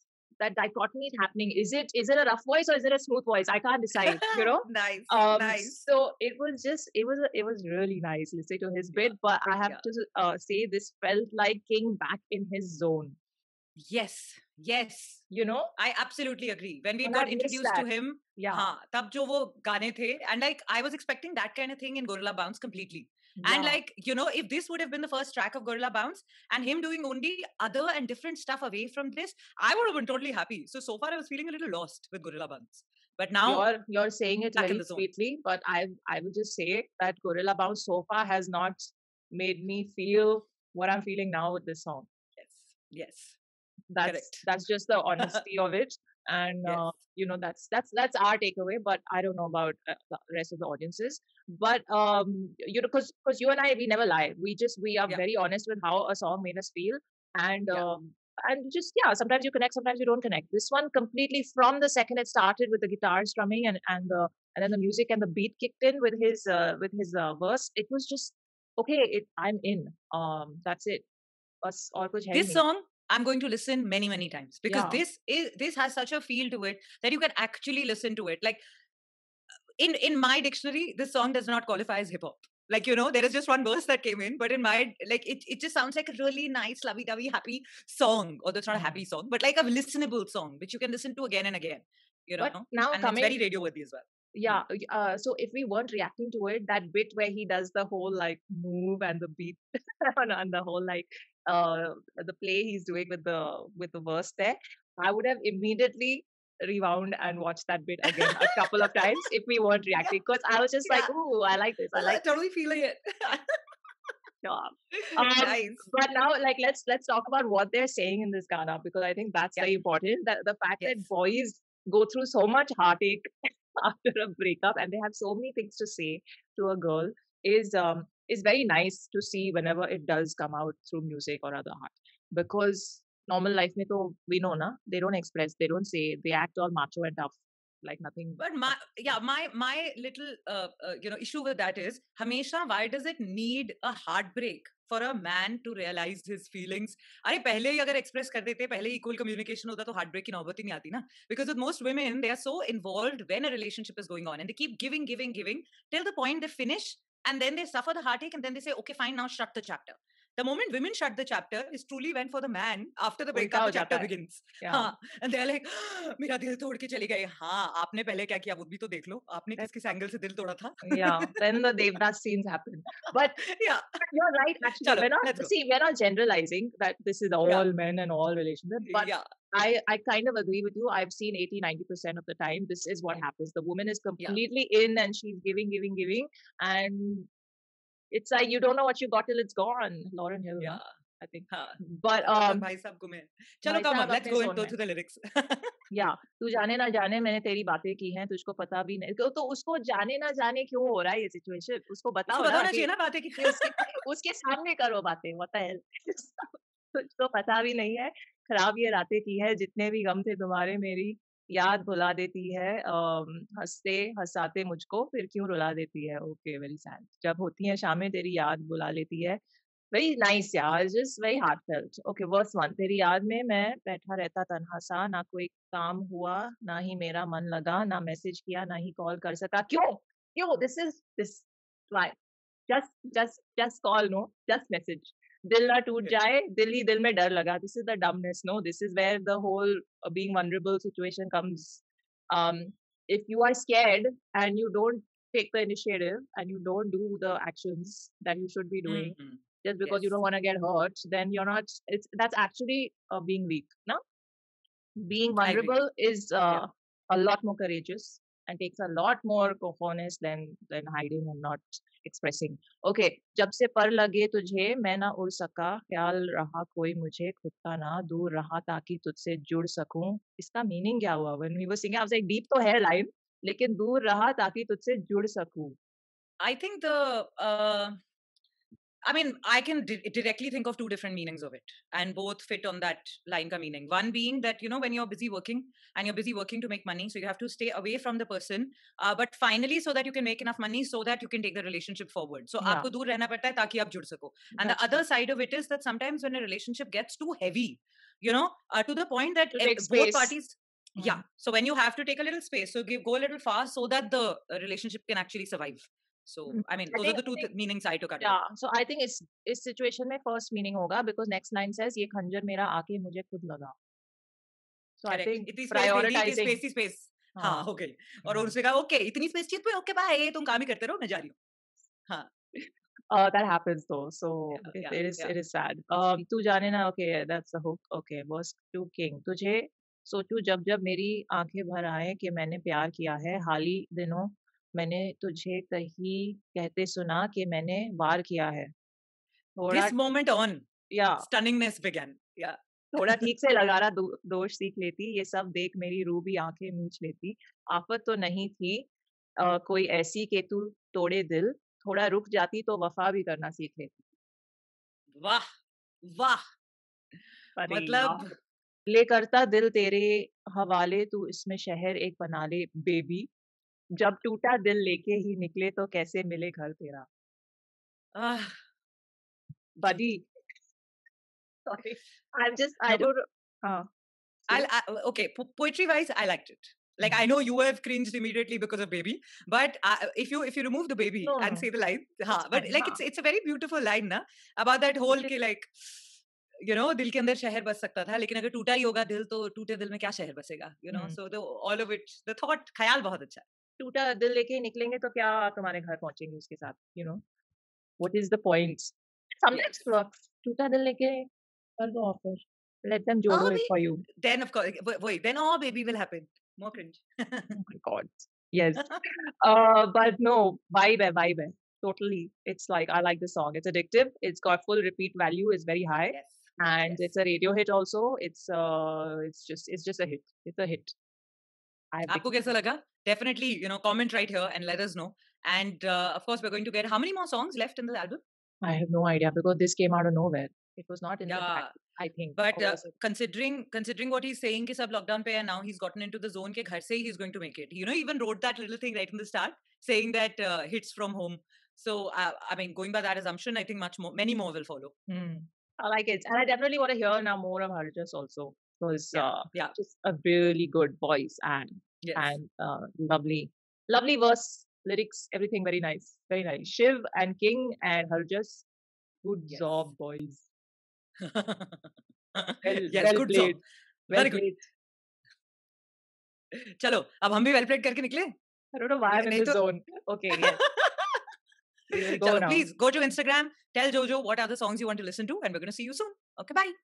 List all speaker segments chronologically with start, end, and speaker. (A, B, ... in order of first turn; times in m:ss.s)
0:00.4-0:13.2 A
0:04.0-0:05.8 B
0:09.0-0:09.8 B
0:13.8-0:33.7 B
0:15.3-0:15.7 A
0:17.0-0:18.7 A
0:23.4-0:23.8 A
0:33.4-0:42.1 A
0:34.6-0:35.1 B
0:42.4-0:43.4 B
0:43.9-1:11.1 A
0:44.0-0:44.4 B
0:46.6-0:47.0 B
1:11.6-1:12.6 A
1:12.3-1:18.6 B
1:14.7-1:15.0 A
1:19.8-1:34.6 B
1:28.7-1:29.0 A
1:32.4-1:33.4 A
1:34.4-1:52.2 A
1:48.1-1:48.8 B
1:51.9-1:53.6 B
1:54.4-2:18.9 A
1:54.9-1:55.9 B
2:18.4-2:51.4 B
2:43.3-2:44.9 A
2:50.8-2:53.4 A
2:53.4-2:53.9 B
2:54.0-3:07.3 A
2:54.8-2:55.5 B
2:58.9-2:59.2 B
3:08.1-3:12.7 A
3:10.6-3:10.9 B
3:11.5-3:11.8 B
3:12.3-3:15.8 B
3:13.6-3:14.8 A
3:15.9-3:39.4 A
3:22.3-3:24.0 B
3:39.9-3:52.2 A
3:52.7-4:14.0 A
4:08.9-4:10.2 B
4:15.0-4:35.8 A
4:15.4-4:15.8 B
4:36.4-4:38.0 B
4:39.0-5:08.4 B
4:52.6-4:52.9 A
4:54.6-4:55.0 A
4:59.6-5:00.4 A
5:01.0-5:01.2 A
5:06.5-5:07.5 A
5:08.2-5:13.7 A
5:15.0-5:16.6 A
5:15.1-5:21.4 B
5:17.4-5:17.7 A
5:18.2-5:18.6 A
5:22.6-5:38.7 A
5:24.5-5:25.3 B
5:39.6-5:40.0 A
5:39.7-5:40.7 B
5:40.9-5:41.3 A
5:41.2-5:43.2 B
5:43.0-5:48.9 A
5:49.4-5:54.0 A
5:55.2-5:55.4 B
5:56.1-5:56.4 B
5:57.6-5:58.3 A
5:57.6-5:58.3 B
5:58.9-6:03.3 A
6:04.0-6:07.1 A
6:08.2-6:08.6 B
6:09.8-6:10.3 A
6:11.7-6:13.9 A
6:14.5-6:26.1 B
6:21.2-6:21.7 A
6:22.3-6:23.0 A
6:25.1-6:25.3 A
6:26.6-6:33.4 B
6:30.9-6:31.2 A
6:33.8-6:37.2 A
6:38.0-6:41.3 A
6:41.8-6:44.0 A
6:43.3-6:47.6 B
6:47.6-7:00.9 A
6:56.1-6:57.1 B
7:01.9-7:02.5 A
7:02.1-7:08.2 B
7:08.6-7:12.9 A
7:11.3-7:11.8 B
7:12.4-7:24.9 B
7:25.1-7:38.7 A
7:29.1-7:29.8 B
7:32.0-7:32.4 B
7:39.2-7:40.5 A
7:39.5-7:39.8 B
7:41.2-7:43.6 B
7:42.6-7:44.6 A
7:44.1-7:44.5 B
7:46.5-7:48.3 B
7:48.7-7:50.6 A
7:49.1-7:49.6 B
7:50.3-7:51.3 B
7:51.9-7:52.7 A
7:51.9-7:56.7 B